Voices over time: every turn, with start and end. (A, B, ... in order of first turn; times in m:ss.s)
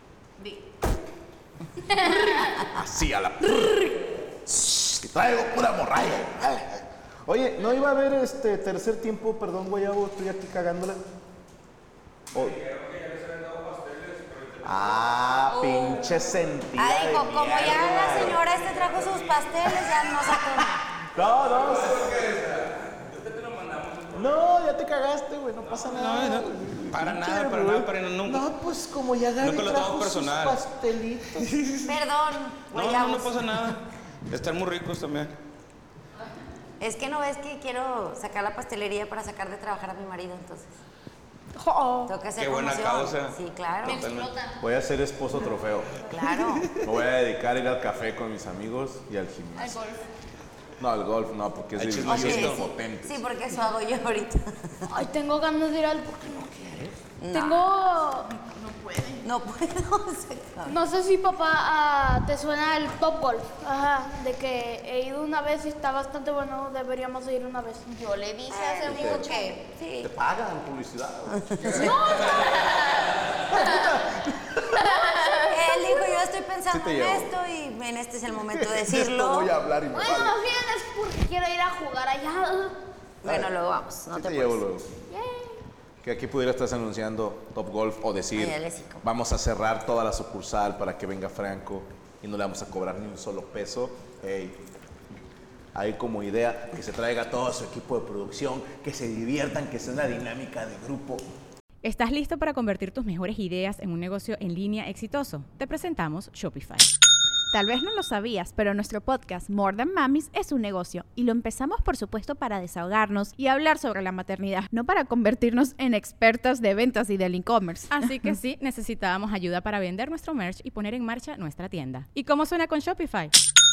0:01.9-0:02.6 A
0:02.6-0:11.0 B
0:12.3-0:12.6 B
0:12.3-0:15.2 C
0:14.6-0:18.5 B
0:15.5-0:16.2 A
0:16.8-0:20.8 D
0:19.6-0:22.5 B
0:21.4-0:24.4 C
0:24.1-0:31.6 B
0:25.7-0:28.5 C
0:29.4-0:30.6 C
0:31.3-0:31.9 C
0:31.8-0:33.5 D
0:32.7-0:35.3 C
0:36.8-0:40.8 D
0:41.6-0:42.1 E
0:42.0-0:44.1 D
0:42.3-0:44.3 C
0:43.8-0:44.6 A
0:44.6-0:46.0 B
0:46.1-0:46.8 D
0:46.7-0:49.8 B
0:49.5-0:50.1 A
0:50.8-0:53.2 B
0:51.8-0:52.7 C
0:52.0-0:54.8 D
0:54.8-0:56.5 E
0:56.2-0:56.9 B
0:57.2-0:57.7 D
0:57.3-0:58.3 E
0:58.5-0:59.2 A
0:59.2-1:00.7 D
1:00.6-1:07.9 E
1:07.8-1:09.6 A
1:08.5-1:10.1 D
1:08.8-1:09.2 B
1:10.0-1:12.6 B
1:11.4-1:11.9 D
1:11.7-1:13.1 E
1:12.7-1:13.1 A
1:13.5-1:15.0 B
1:15.0-1:15.5 A
1:15.2-1:16.3 E
1:15.5-1:19.5 D
1:16.7-1:17.4 B
1:18.3-1:20.4 B
1:19.9-1:22.8 E
1:23.2-1:24.6 D
1:23.2-1:23.5 B
1:24.1-1:24.9 B
1:25.2-1:25.6 A
1:26.0-1:34.6 B
1:28.3-1:29.0 D
1:35.7-1:41.2 B
1:41.8-1:46.9 F
1:47.5-1:58.1 G
1:57.9-2:03.3 F